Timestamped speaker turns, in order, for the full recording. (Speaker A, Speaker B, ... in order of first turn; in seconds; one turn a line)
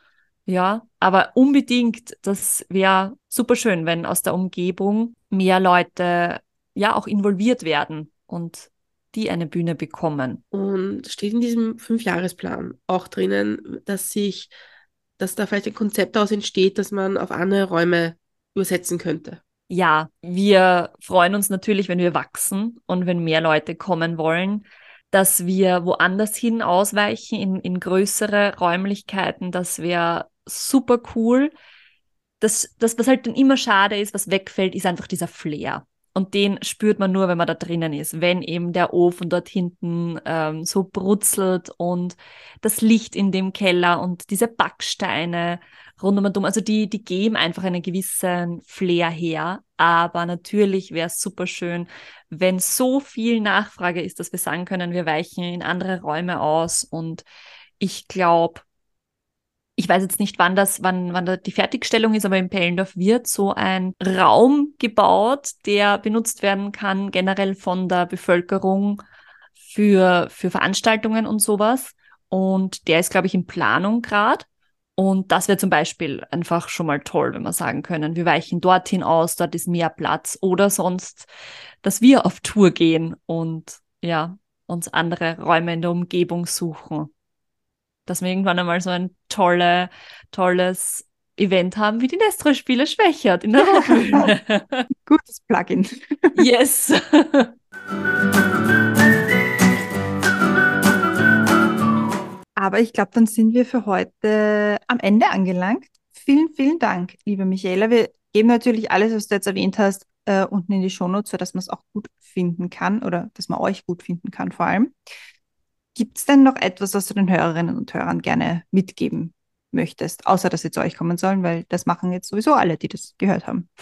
Speaker A: 0.5-10.4
Speaker B: 10.5-14.5
Speaker B: 15.2-19.4
Speaker A: 19.7-31.5
Speaker A: 32.4-57.2
Speaker A: 57.8-58.6
Speaker A: 59.8-69.0
Speaker A: 69.6-74.5
Speaker A: 75.0-81.3
Speaker A: 81.8-87.1
Speaker A: 88.0-94.9
Speaker C: 93.7-94.3
Speaker C: 95.0-96.4
Speaker A: 96.3-97.5
Speaker C: 102.5-114.9
Speaker C: 115.9-123.7